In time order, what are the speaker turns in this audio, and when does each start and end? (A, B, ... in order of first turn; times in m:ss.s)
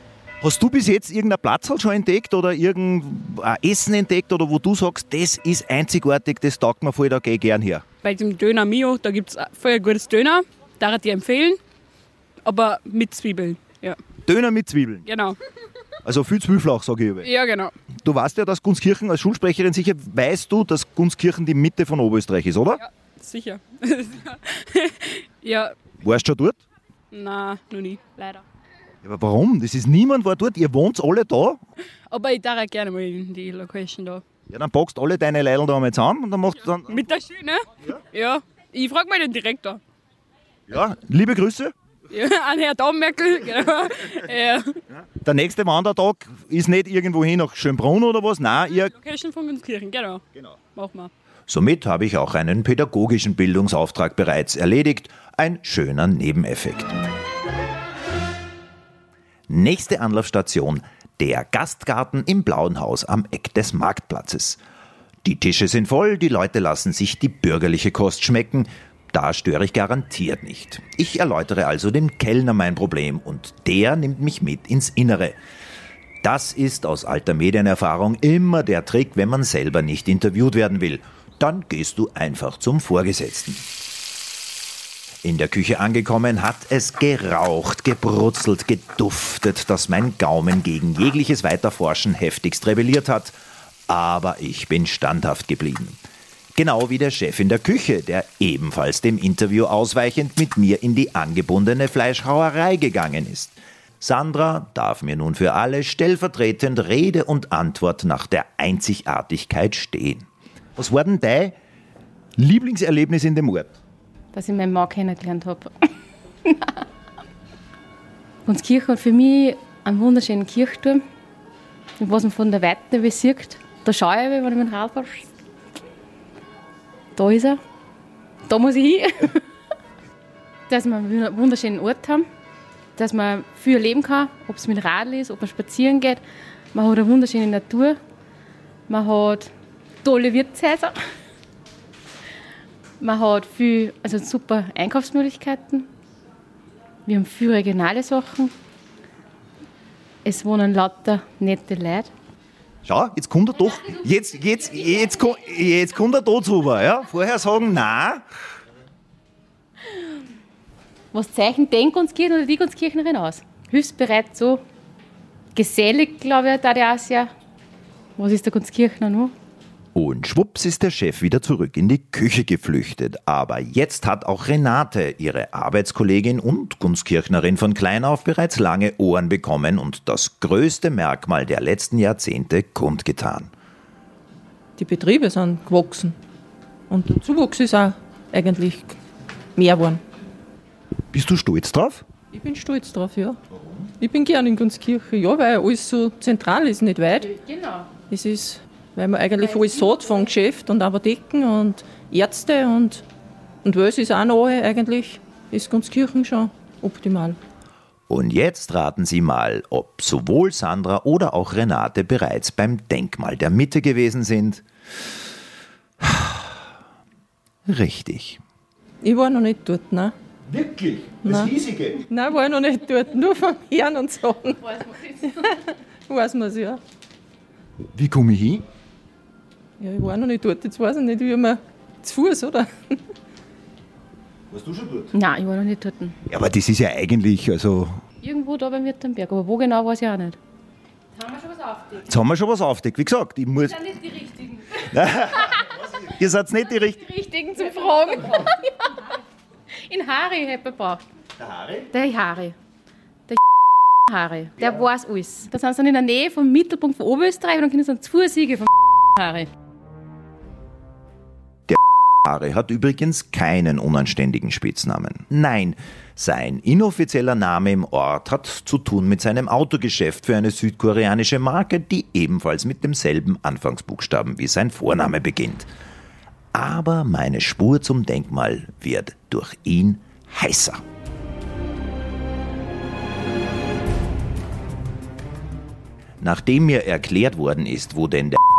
0:00.4-0:07.8 A
0:08.0-0:11.6 B
0:12.4-0:14.0 B
0:14.2-0:15.1 A
0:15.1-0:15.4 B
0:16.0-0:17.3 A
0:17.2-0:17.7 B
0:18.0-0:22.8 A
0:22.8-0:25.7 B
0:26.0-0:26.6 A
0:27.1-0:28.4 B
0:29.0-0:31.6 A
0:32.1-0:34.2 B
0:34.5-0:37.0 A
0:36.9-0:39.8 B
0:40.7-0:41.7 A
0:42.1-0:44.8 B
0:45.2-0:48.9 A
0:48.9-0:50.2 B
0:50.8-0:51.1 B
0:51.5-0:57.0 A
0:59.5-1:04.6 A
1:05.2-1:15.4 A
1:16.2-1:23.6 A
1:25.2-1:33.4 A
1:33.9-1:36.0 A
1:36.5-1:51.6 A
1:52.4-1:53.8 A
1:54.3-1:55.7 C
1:56.4-1:56.7 C
1:58.4-2:01.0 C
2:02.0-2:05.3 C
2:07.2-2:07.6 C
2:08.5-2:09.4 C
2:10.7-2:12.3 C
2:13.0-2:16.2 C
2:16.7-2:18.0 C
2:18.9-2:19.5 C
2:20.0-2:21.0 C
2:23.0-2:25.9 C
2:27.0-2:28.5 C
2:30.2-2:32.1 C
2:32.8-2:38.2 A
2:41.1-2:44.6 C
2:45.5-2:47.3 C
2:48.2-2:49.3 C
2:49.9-3:03.5 A
3:04.8-3:06.2 D
3:06.9-3:09.0 D
3:09.6-3:10.0 D
3:11.1-3:12.0 A
3:12.3-3:13.4 D
3:14.0-3:17.3 D
3:17.2-3:17.9 C
3:18.1-3:23.0 D
3:23.6-3:27.4 D
3:28.1-3:34.6 A
3:36.0-3:36.6 A
3:37.6-3:38.4 A
3:39.0-3:40.1 D
3:40.5-3:42.0 A
3:41.2-3:41.6 D
3:42.1-3:46.8 D
3:47.9-3:48.6 A
3:49.8-3:53.0 D
3:54.5-3:55.1 A
3:55.1-3:56.2 C
3:56.3-3:58.0 A
3:58.2-4:00.4 C
4:01.2-4:02.0 C
4:02.0-4:07.0 A
4:04.2-4:04.6 C
4:07.0-4:09.1 C
4:09.7-4:11.0 C
4:11.4-4:11.9 A
4:11.9-4:12.5 C
4:14.0-4:19.5 C
4:21.7-4:35.7 A
4:36.5-4:40.8 A
4:46.2-4:48.4 A